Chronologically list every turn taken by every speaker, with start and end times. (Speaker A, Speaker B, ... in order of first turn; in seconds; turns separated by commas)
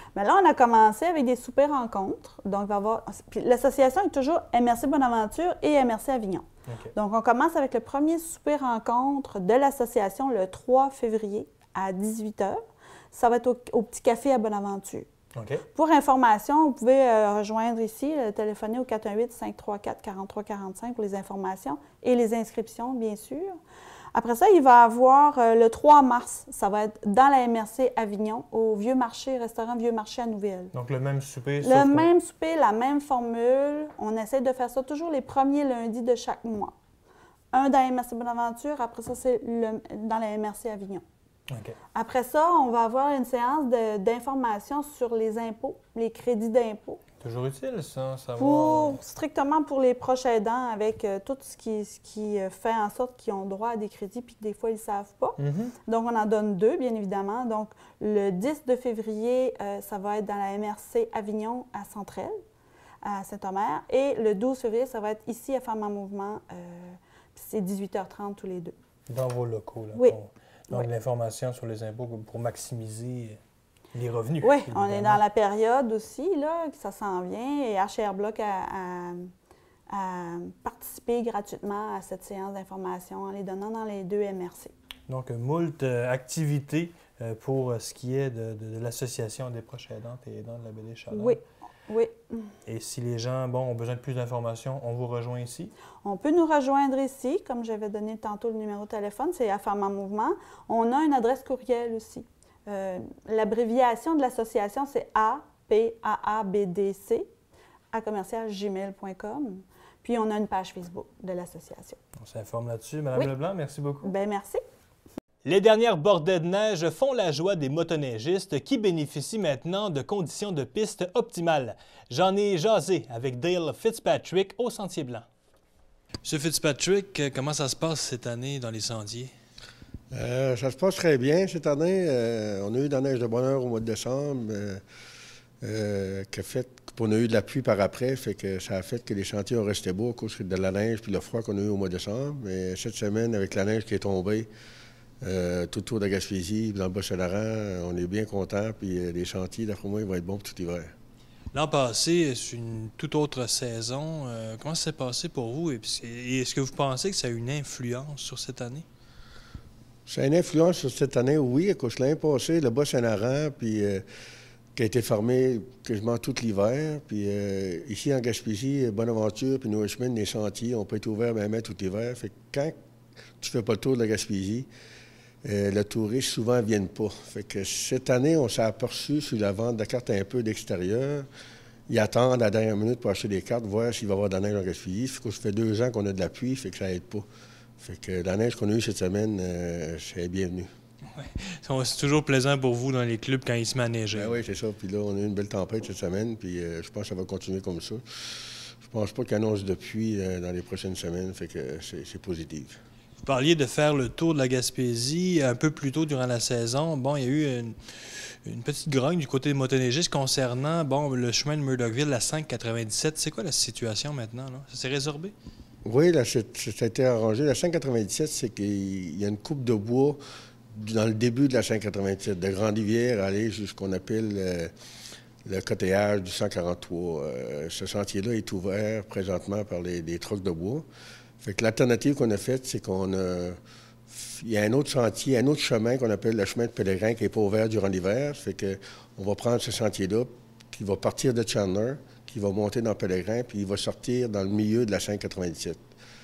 Speaker A: 0.1-12.6, Speaker B: 6.7-6.9, Speaker A: 13.1-15.1, Speaker B: 15.3-15.6, Speaker A: 15.7-23.6, Speaker A: 24.1-30.7, Speaker B: 30.7-32.1, Speaker A: 31.6-36.7, Speaker A: 37.5-41.0, Speaker B: 41.5-41.8, Speaker A: 41.9-47.0, Speaker B: 47.2-49.0, Speaker A: 48.4-62.3, Speaker B: 55.4-55.7, Speaker A: 63.0-68.7, Speaker B: 69.1-73.4, Speaker B: 73.9-75.2, Speaker A: 74.4-79.3, Speaker A: 79.9-84.7, Speaker B: 85.1-91.4, Speaker A: 91.1-92.5, Speaker B: 92.7-95.7, Speaker A: 96.0-107.3, Speaker A: 107.9-112.0, Speaker B: 112.2-114.1, Speaker A: 114.0-114.6, Speaker B: 115.4-125.2, Speaker B: 126.2-129.3, Speaker C: 130.1-134.8, Speaker C: 135.6-144.5, Speaker C: 145.2-150.9, Speaker B: 151.5-158.8, Speaker C: 160.1-164.0, Speaker C: 164.8-172.7, Speaker C: 173.4-174.7, Speaker C: 175.4-181.3, Speaker C: 181.9-187.2, Speaker C: 187.8-190.7, Speaker B: 191.1-194.3, Speaker C: 194.1-198.0, Speaker C: 198.8-202.8, Speaker B: 203.2-207.8, Speaker B: 208.4-215.3, Speaker C: 215.8-220.2, Speaker C: 220.7-224.7, Speaker C: 225.4-230.8, Speaker C: 231.4-245.8